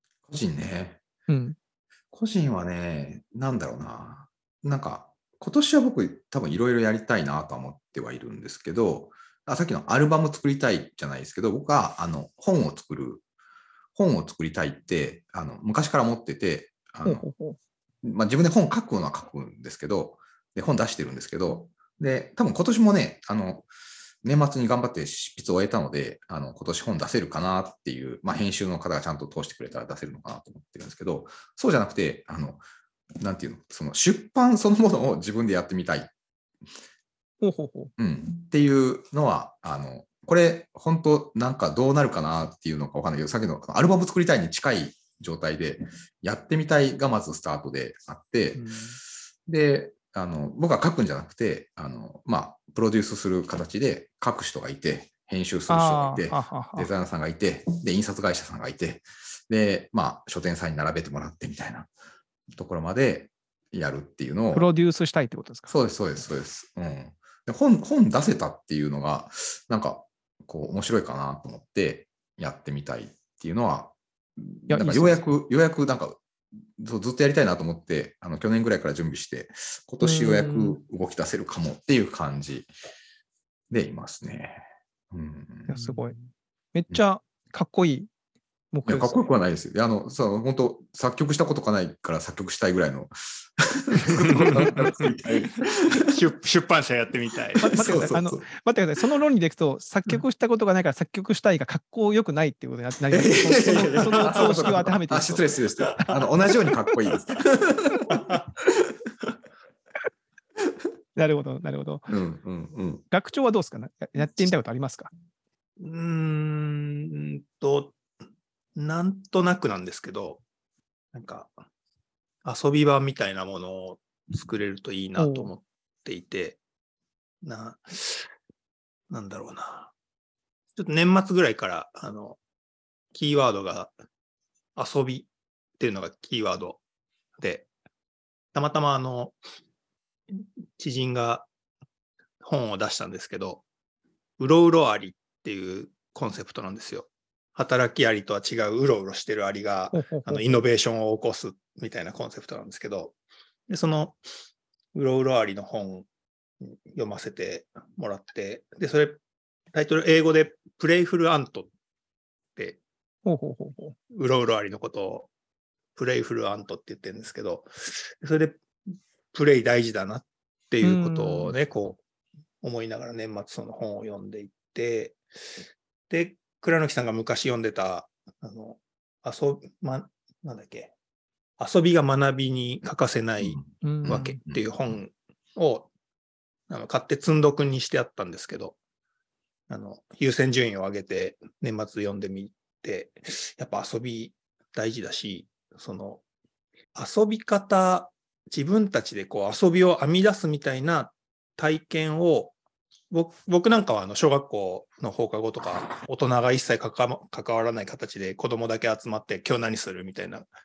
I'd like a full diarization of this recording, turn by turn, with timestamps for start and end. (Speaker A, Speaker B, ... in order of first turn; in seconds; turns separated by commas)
Speaker A: 0.3-1.0, Speaker B: 1.3-1.6, Speaker A: 2.1-13.2, Speaker A: 13.9-17.3, Speaker B: 17.1-17.6, Speaker A: 18.0-23.7, Speaker A: 24.2-32.6, Speaker A: 33.2-36.1, Speaker B: 37.4-37.9, Speaker A: 38.0-48.7, Speaker C: 48.5-49.0, Speaker A: 49.5-61.9, Speaker B: 55.7-56.9, Speaker A: 62.5-64.7, Speaker B: 64.5-65.7, Speaker A: 65.7-76.2, Speaker B: 74.7-75.2, Speaker A: 76.8-82.7, Speaker B: 80.0-80.8, Speaker A: 83.7-85.7, Speaker B: 85.7-86.2, Speaker C: 85.8-86.2, Speaker B: 86.7-88.1, Speaker B: 88.7-89.2, Speaker A: 88.9-96.1, Speaker C: 94.1-95.2, Speaker C: 96.0-97.8, Speaker B: 97.6-106.1, Speaker A: 97.7-98.5, Speaker A: 103.1-108.2, Speaker C: 104.0-104.8, Speaker C: 108.1-108.5, Speaker B: 111.2-112.1, Speaker A: 112.1-113.0, Speaker B: 113.1-115.1, Speaker C: 115.8-118.0, Speaker C: 118.8-120.4, Speaker C: 121.1-121.5, Speaker C: 122.4-126.6, Speaker B: 125.2-125.5, Speaker C: 127.4-128.3, Speaker C: 129.1-129.9, Speaker C: 130.8-132.4, Speaker C: 133.1-133.9, Speaker C: 134.8-136.8, Speaker C: 137.4-137.7, Speaker C: 138.6-139.4, Speaker C: 140.4-141.5, Speaker C: 142.4-143.6, Speaker C: 144.4-153.2, Speaker B: 149.9-150.5, Speaker C: 153.7-154.2, Speaker C: 154.9-156.1, Speaker C: 156.6-159.2, Speaker C: 159.7-161.7, Speaker B: 163.2-164.0, Speaker C: 164.1-165.3, Speaker C: 166.0-168.6, Speaker C: 169.3-172.0, Speaker B: 170.8-171.6, Speaker C: 172.6-175.2, Speaker C: 176.1-180.9, Speaker C: 181.6-185.9, Speaker A: 183.4-184.6, Speaker B: 183.8-184.4, Speaker C: 186.7-188.8, Speaker C: 189.7-196.2, Speaker C: 196.9-202.6, Speaker C: 203.1-210.5